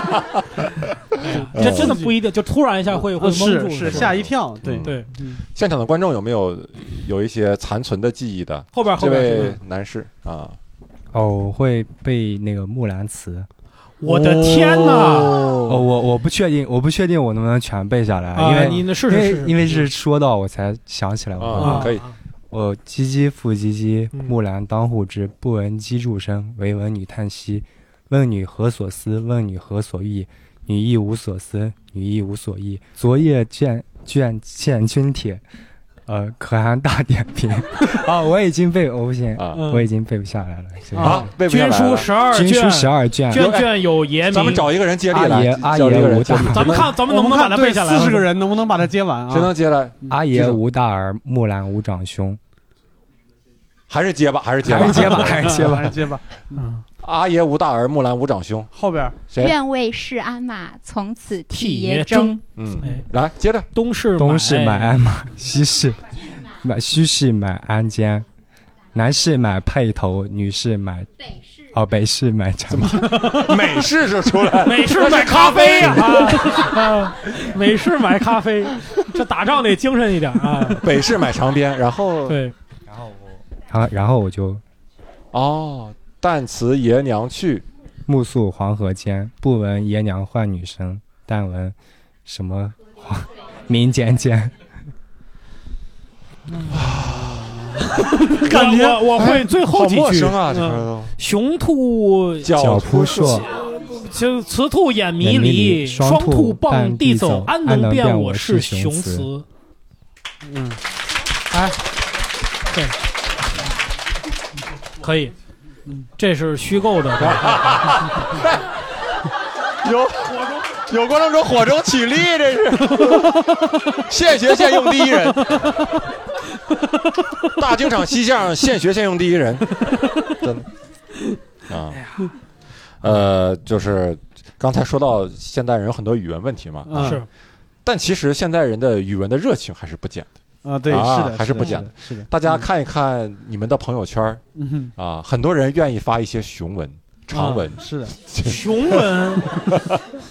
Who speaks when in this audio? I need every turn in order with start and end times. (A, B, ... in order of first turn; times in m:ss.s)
0:01.2-0:04.2 A
0:01.2-0:02.1 B
0:01.5-0:01.9 C
0:03.1-0:05.4 B
0:03.8-0:10.6 C
0:04.8-0:05.1 A
0:08.7-0:09.6 A
0:11.1-0:13.5 D
0:14.0-0:15.4 A
0:14.3-0:15.7 B
0:15.7-0:21.8 D
0:18.3-0:19.9 A
0:21.4-0:22.0 C
0:21.6-0:22.0 B
0:21.6-0:22.1 A
0:22.5-0:35.4 D
0:36.1-0:41.2 D
0:39.4-0:39.6 C
0:39.5-0:39.8 B
0:40.9-0:41.3 B
0:41.0-0:42.1 C
0:41.2-0:44.7 A
0:42.2-0:43.5 D
0:43.3-0:46.9 C
0:45.1-0:46.8 D
0:46.5-0:48.3 A
0:47.0-0:49.5 B
0:49.3-0:50.6 C
0:50.1-0:52.4 D
0:53.9-0:55.6 C
0:54.7-0:55.9 D
0:54.7-0:56.7 B
0:56.6-0:56.8 A
0:57.0-0:58.7 C
0:58.7-0:59.2 B
0:59.4-1:02.4 E
1:01.5-1:03.0 A
1:02.5-1:03.7 C
1:03.7-1:05.0 A
1:04.2-1:08.2 D
1:08.9-1:13.2 D
1:12.7-1:16.8 C
1:14.6-1:20.8 A
1:20.8-1:22.4 C
1:22.3-1:22.5 A
1:22.9-1:24.6 D
1:25.3-1:27.6 C
1:28.0-1:34.5 D
1:36.6-1:39.1 B
1:36.7-1:37.6 C
1:38.3-1:40.4 A
1:39.2-1:41.1 C
1:40.5-1:40.8 B
1:41.2-1:42.6 A
1:42.4-1:43.4 C
1:42.5-1:43.5 D
1:43.6-1:49.4 A
1:45.2-1:49.3 D
1:50.4-1:50.8 B
1:51.5-1:51.8 A
1:52.7-1:52.9 A
1:55.0-1:55.3 A
1:56.2-1:57.9 A
1:57.2-1:58.7 C
1:59.8-2:05.7 C
2:07.5-2:10.6 C
2:11.7-2:12.0 C
2:12.0-2:12.3 A
2:13.0-2:17.2 C
2:16.9-2:17.2 B
2:16.9-2:17.2 A
2:17.8-2:20.3 C
2:20.6-2:22.6 B
2:20.8-2:24.4 C
2:24.6-2:24.9 B
2:25.0-2:30.0 C
2:27.3-2:28.1 B
2:28.4-2:29.5 A